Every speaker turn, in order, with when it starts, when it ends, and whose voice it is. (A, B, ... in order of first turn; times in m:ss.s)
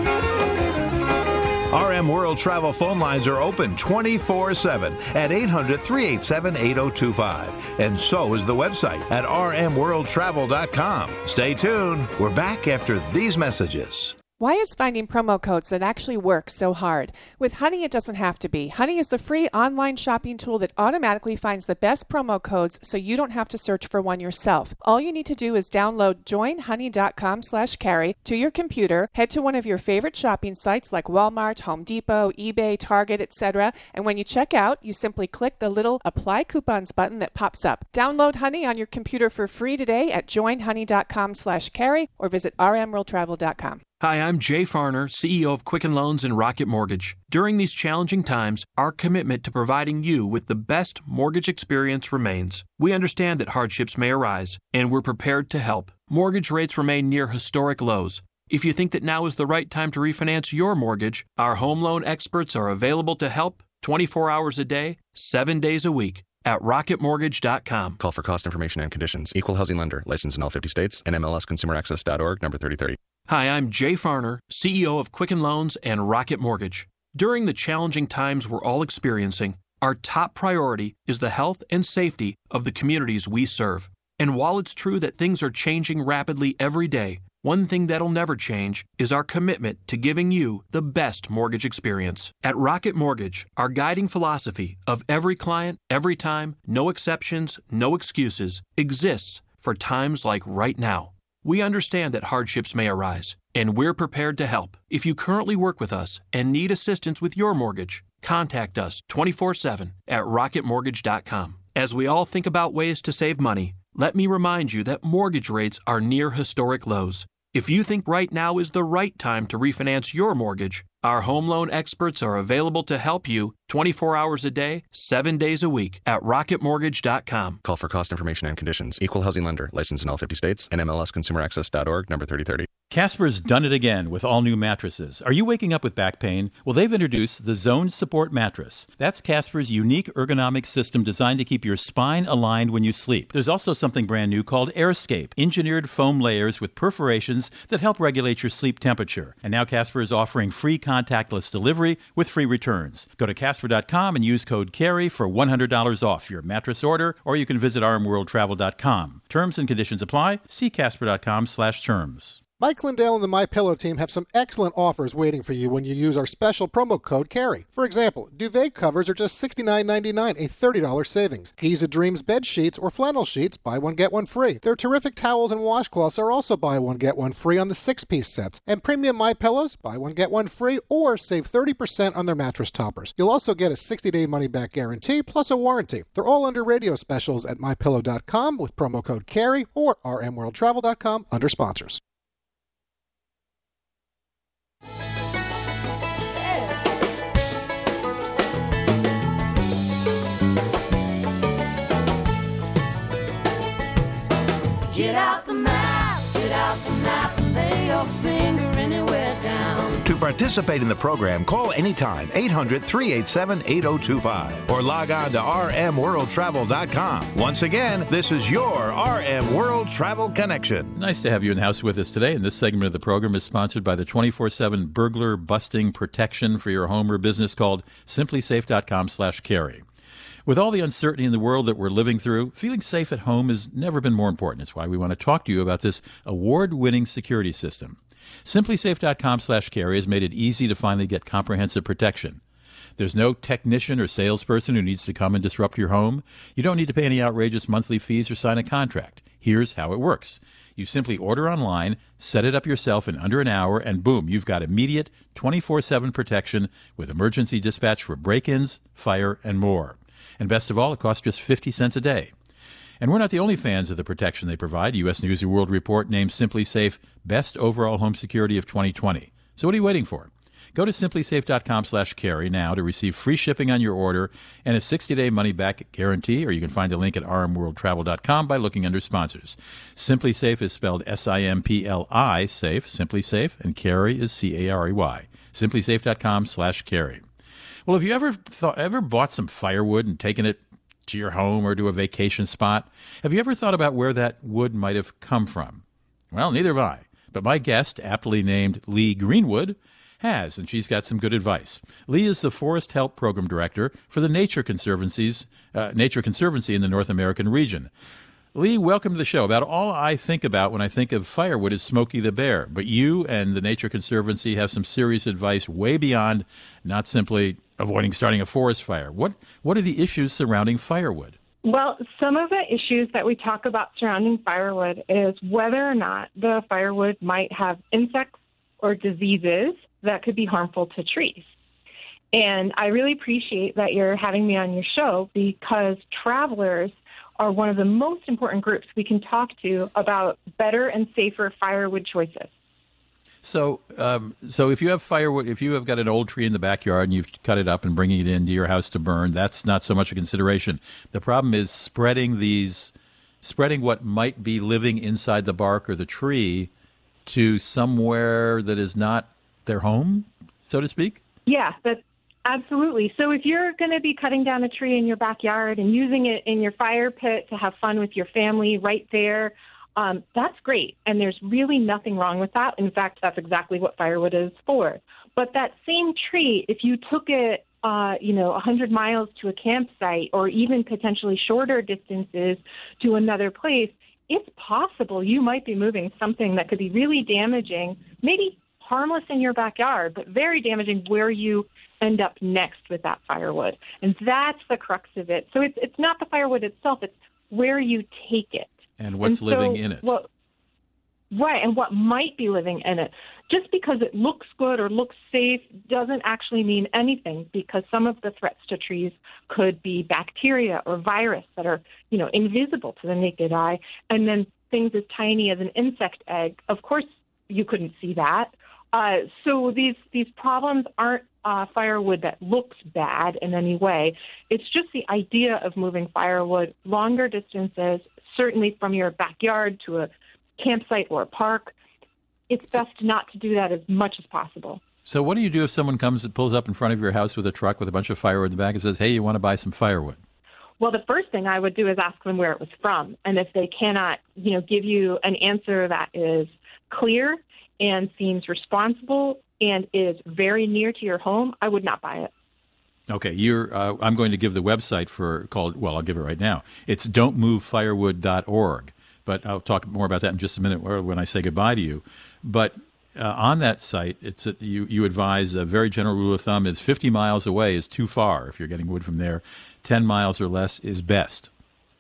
0:01.7-0:14.2 A
0:14.4-0:43.8 B
0:44.0-1:08.0 C
1:08.0-1:13.0 D
1:13.3-2:07.6 C
2:07.6-2:12.7 D
2:12.9-2:42.4 E
2:42.6-3:12.0 F
3:24.9-3:30.0 G
3:30.0-3:41.0 A
3:41.0-3:49.8 E
3:50.5-4:02.4 E
4:03.0-4:22.3 E
4:23.0-4:47.2 E
4:47.9-5:07.9 E
5:08.5-5:21.4 E
5:21.6-5:31.5 H
5:32.3-5:42.5 H
5:43.4-5:56.7 E
5:57.3-6:01.2 E
6:01.5-6:40.3 H
6:39.0-6:40.1 E
6:41.3-7:11.7 H
7:12.5-7:14.8 H
7:15.0-7:20.2 E
7:20.8-7:32.3 H
7:33.1-7:51.5 E